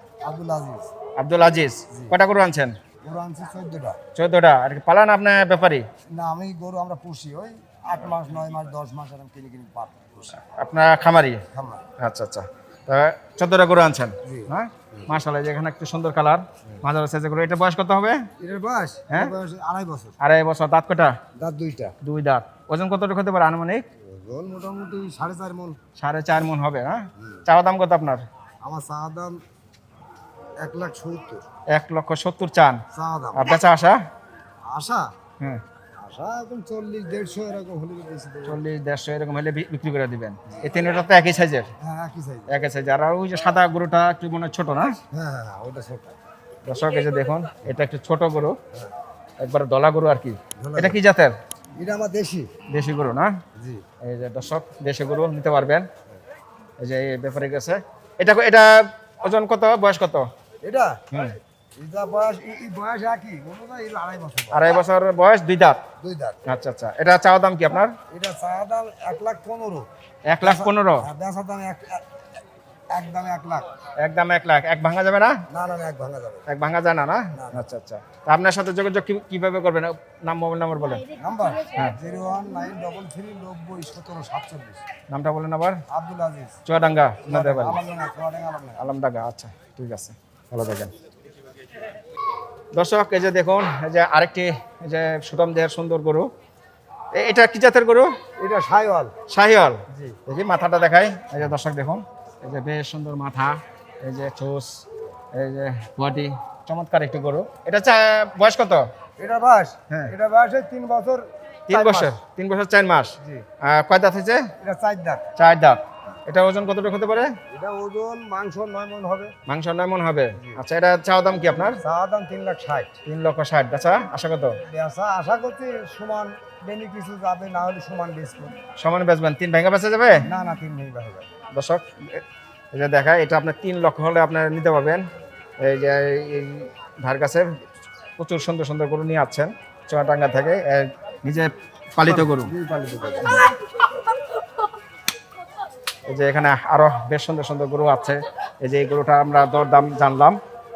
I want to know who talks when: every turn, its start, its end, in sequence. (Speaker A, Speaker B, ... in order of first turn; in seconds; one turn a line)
Speaker A: 0.2-0.9
Speaker B: 1.2-2.8
Speaker A: 3.0-4.0
Speaker B: 4.2-5.8
Speaker A: 6.1-10.4
Speaker B: 10.4-11.4
Speaker A: 11.5-11.8
Speaker B: 12.0-18.3
Speaker A: 14.2-15.0
Speaker A: 18.4-20.2
Speaker B: 20.2-21.1
Speaker A: 21.4-22.0
Speaker B: 22.0-23.9
Speaker A: 24.0-25.8
Speaker B: 26.0-28.2
Speaker A: 28.6-29.4
Speaker A: 30.6-31.4
Speaker B: 31.7-32.8
Speaker A: 32.9-33.5
Speaker B: 33.4-34.0
Speaker A: 34.7-35.1
Speaker A: 36.0-38.6
Speaker B: 38.4-41.7
Speaker A: 41.8-42.5
Speaker B: 42.5-45.0
Speaker A: 45.1-46.1
Speaker B: 46.7-48.6
Speaker B: 49.4-51.4
Speaker A: 50.6-51.0
Speaker A: 51.8-52.5
Speaker B: 52.7-53.3
Speaker A: 53.5-53.8
Speaker B: 54.0-55.9
Speaker B: 56.8-60.3
Speaker A: 60.6-61.0
Speaker B: 61.1-61.4
Speaker A: 61.8-64.7
Speaker B: 64.5-65.8
Speaker A: 66.0-66.4
Speaker B: 66.5-68.0
Speaker A: 68.1-69.9
Speaker B: 70.3-71.1
Speaker A: 70.4-72.0
Speaker A: 72.9-73.7
Speaker B: 74.0-75.4
Speaker A: 75.5-76.5
Speaker B: 76.5-81.1
Speaker A: 77.3-77.6
Speaker A: 81.2-84.8
Speaker B: 85.1-85.8
Speaker A: 85.9-86.6
Speaker B: 86.7-87.8
Speaker A: 87.2-88.8
Speaker B: 88.8-90.9
Speaker B: 92.8-96.3
Speaker B: 97.2-98.1
Speaker A: 98.4-99.1
Speaker B: 99.3-108.9
Speaker A: 109.2-112.2
Speaker B: 109.9-110.1
Speaker B: 111.7-114.5
Speaker A: 114.6-115.2
Speaker B: 115.4-117.3
Speaker A: 117.5-119.3
Speaker B: 119.5-121.8
Speaker A: 121.8-122.9
Speaker B: 123.1-124.6
Speaker A: 124.7-128.6
Speaker B: 128.8-130.2
Speaker A: 130.3-131.3
Speaker B: 131.6-132.2
Speaker B: 132.7-135.0
Speaker B: 135.6-137.5
Speaker B: 138.2-142.5
Speaker A: 142.1-143.5
Speaker B: 146.1-150.4